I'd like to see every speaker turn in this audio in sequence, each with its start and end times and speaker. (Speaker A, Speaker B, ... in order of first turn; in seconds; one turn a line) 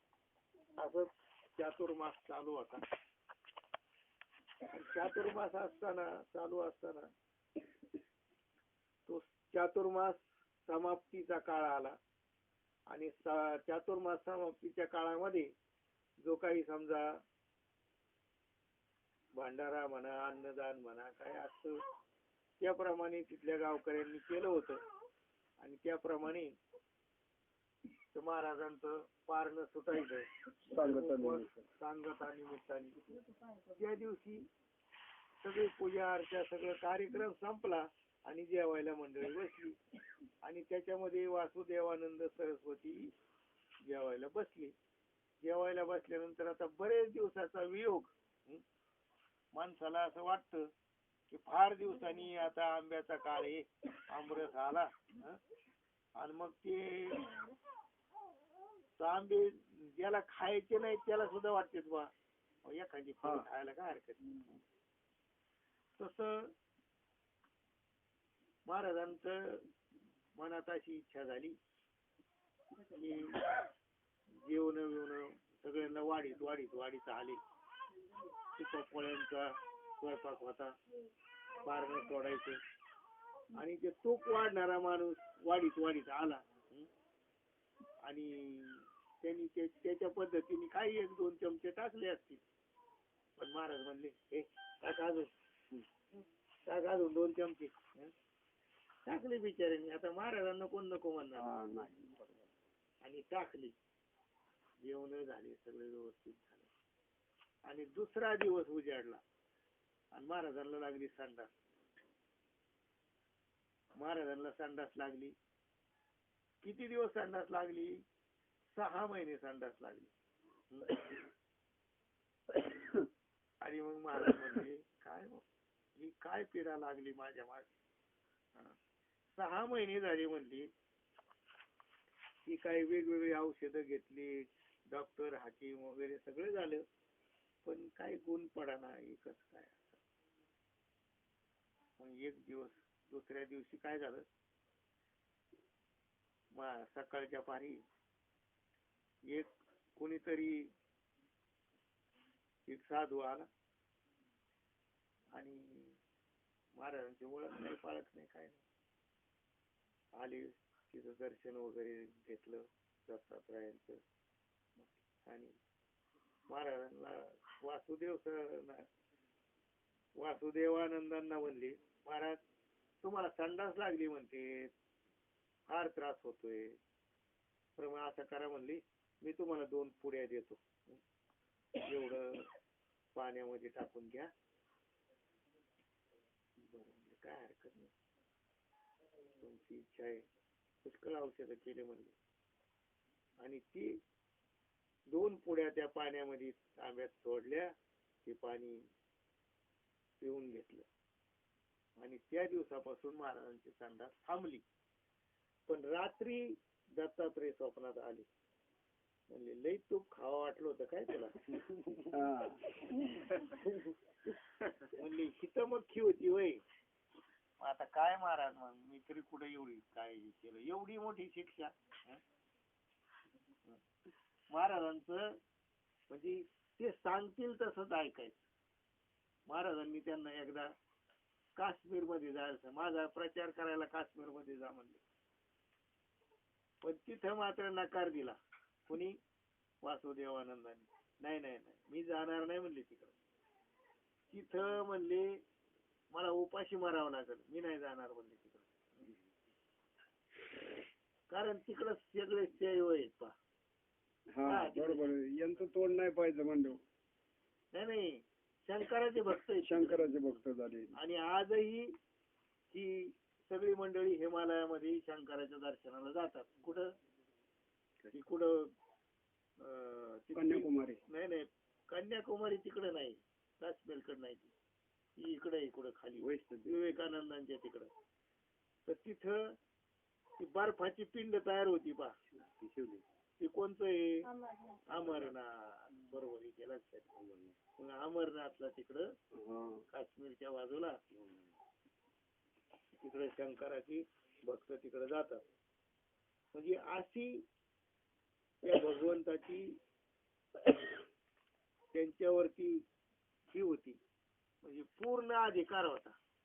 Speaker A: 0.8-2.8
Speaker A: 4.7-7.1
Speaker A: 9.1-12.0
Speaker A: 12.9-15.5
Speaker A: 16.2-17.2
Speaker A: 19.3-21.8
Speaker A: 22.6-24.8
Speaker A: 25.6-26.6
Speaker A: 28.1-34.5
Speaker B: 30.7-31.6
Speaker A: 35.4-39.8
Speaker A: 40.4-43.1
Speaker A: 43.8-44.7
Speaker A: 45.4-48.6
Speaker A: 49.5-50.7
Speaker A: 51.3-55.4
Speaker A: 56.2-57.3
Speaker A: 59.0-62.1
Speaker A: 62.6-64.5
Speaker B: 63.2-63.5
Speaker A: 66.0-66.5
Speaker A: 68.7-69.7
Speaker A: 70.3-71.6
Speaker A: 72.9-73.5
Speaker A: 74.3-77.4
Speaker A: 78.5-80.7
Speaker A: 81.6-82.6
Speaker A: 83.5-86.9
Speaker A: 88.0-92.4
Speaker A: 93.4-95.3
Speaker A: 96.7-98.1
Speaker A: 99.0-101.5
Speaker B: 101.3-102.5
Speaker A: 103.0-103.8
Speaker A: 104.8-106.7
Speaker A: 107.7-109.2
Speaker A: 110.1-111.5
Speaker A: 114.0-115.3
Speaker A: 116.6-118.0
Speaker A: 118.7-120.1
Speaker A: 120.7-121.0
Speaker A: 123.6-125.4
Speaker A: 125.9-127.7
Speaker A: 129.3-130.7
Speaker A: 132.4-136.8
Speaker A: 137.6-140.0
Speaker A: 142.0-144.2
Speaker A: 146.5-147.8
Speaker A: 149.2-150.7
Speaker A: 152.7-153.5
Speaker A: 155.3-156.0
Speaker A: 156.7-158.6
Speaker A: 160.2-164.0
Speaker A: 165.2-165.5
Speaker A: 166.5-168.9
Speaker A: 170.2-172.4
Speaker A: 173.0-174.7
Speaker A: 175.7-176.8
Speaker A: 177.8-181.0
Speaker A: 181.8-182.5
Speaker A: 183.1-184.3
Speaker A: 186.6-187.9
Speaker A: 189.4-190.2
Speaker A: 190.8-192.1
Speaker A: 193.4-194.0
Speaker A: 195.1-197.7
Speaker A: 198.2-198.9
Speaker A: 200.2-200.8
Speaker A: 202.0-204.6
Speaker A: 205.7-208.3
Speaker A: 209.3-211.4
Speaker B: 211.5-213.6
Speaker A: 214.9-216.6
Speaker A: 217.6-222.2
Speaker A: 224.5-225.4
Speaker A: 226.1-228.5
Speaker A: 229.5-230.7
Speaker A: 231.6-235.0
Speaker A: 236.8-239.2
Speaker A: 239.8-243.2
Speaker A: 244.3-245.4
Speaker A: 246.1-249.1
Speaker A: 251.3-253.3
Speaker B: 254.3-256.8
Speaker A: 254.4-255.6
Speaker A: 257.7-260.4
Speaker B: 259.6-260.9
Speaker A: 260.9-262.0
Speaker A: 262.7-266.9
Speaker A: 268.1-268.7
Speaker A: 269.6-274.5
Speaker B: 270.3-271.0
Speaker A: 275.2-277.9
Speaker B: 276.2-276.8
Speaker A: 278.9-279.5
Speaker A: 280.4-282.1
Speaker B: 282.4-283.0
Speaker A: 283.4-287.1
Speaker A: 287.8-289.1
Speaker B: 289.3-289.8
Speaker A: 289.9-291.0
Speaker A: 293.0-295.4
Speaker A: 296.5-297.5
Speaker A: 298.6-299.8
Speaker A: 301.9-302.8
Speaker A: 303.5-304.0
Speaker A: 304.6-306.1